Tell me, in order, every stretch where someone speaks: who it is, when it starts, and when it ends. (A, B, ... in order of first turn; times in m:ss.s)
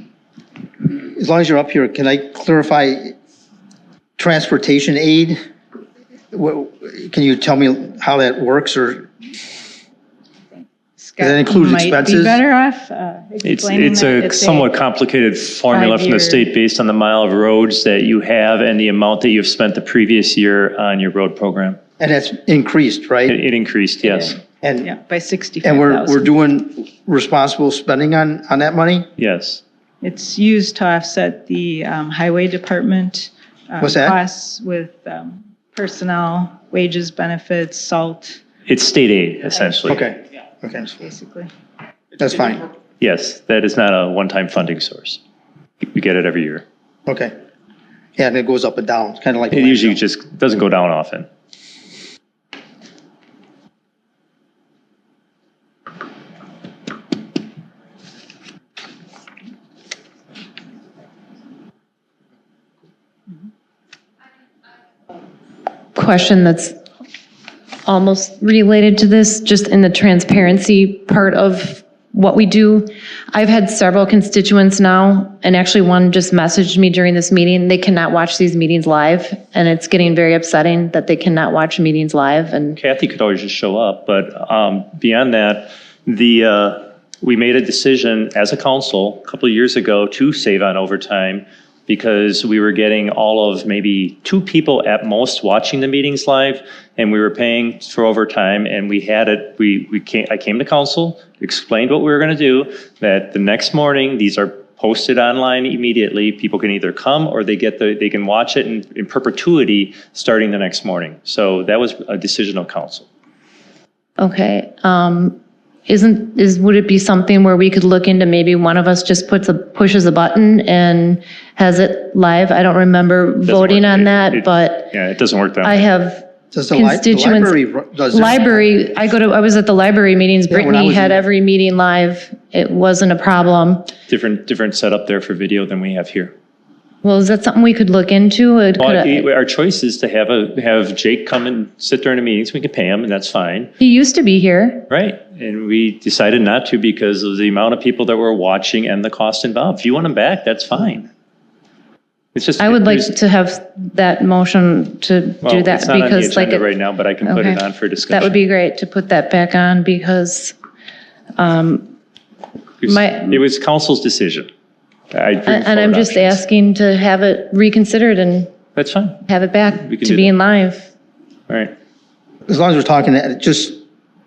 0:00.9-0:03.1 A
0:04.2-0:05.4 A
0:06.3-0:09.1 A
0:11.0-0:14.7 B
0:11.2-0:12.4 A
0:13.4-0:21.8 C
0:15.7-0:16.4 B
0:22.0-0:23.4 A
0:23.3-0:24.4 C
0:24.1-0:26.3 B
0:24.6-0:24.9 A
0:25.6-0:29.1 A
0:29.2-0:29.6 C
0:30.0-0:38.4 B
0:33.8-0:34.2 A
0:38.7-0:40.0 C
0:39.9-0:40.9 A
0:41.0-0:41.5 B
0:42.2-0:42.6 A
0:43.0-0:45.2 C
0:45.8-0:46.6 C
0:47.1-0:47.3 A
0:48.2-0:50.0 A
0:49.5-0:51.3 C
1:06.0-1:06.8 D
1:07.9-1:22.8 D
1:22.8-1:53.0 C
1:54.2-2:04.9 D
2:03.5-2:05.9 C
2:05.6-2:07.6 D
2:06.5-2:08.7 A
2:08.1-2:13.9 D
2:10.5-2:11.2 A
2:14.1-2:16.3 C
2:17.0-2:19.2 D
2:18.8-2:23.7 C
2:23.8-2:24.9 D
2:24.9-2:31.1 C
2:32.4-2:33.1 C
2:32.6-2:36.7 D
2:35.4-2:38.4 C
2:37.2-2:40.5 D
2:41.4-2:41.9 D
2:42.8-2:44.5 C
2:42.8-2:43.4 D
2:45.1-2:46.4 C
2:45.4-2:48.5 D
2:48.8-2:49.2 C
2:49.2-2:50.9 D
2:49.9-2:50.3 C
2:52.5-2:53.8 A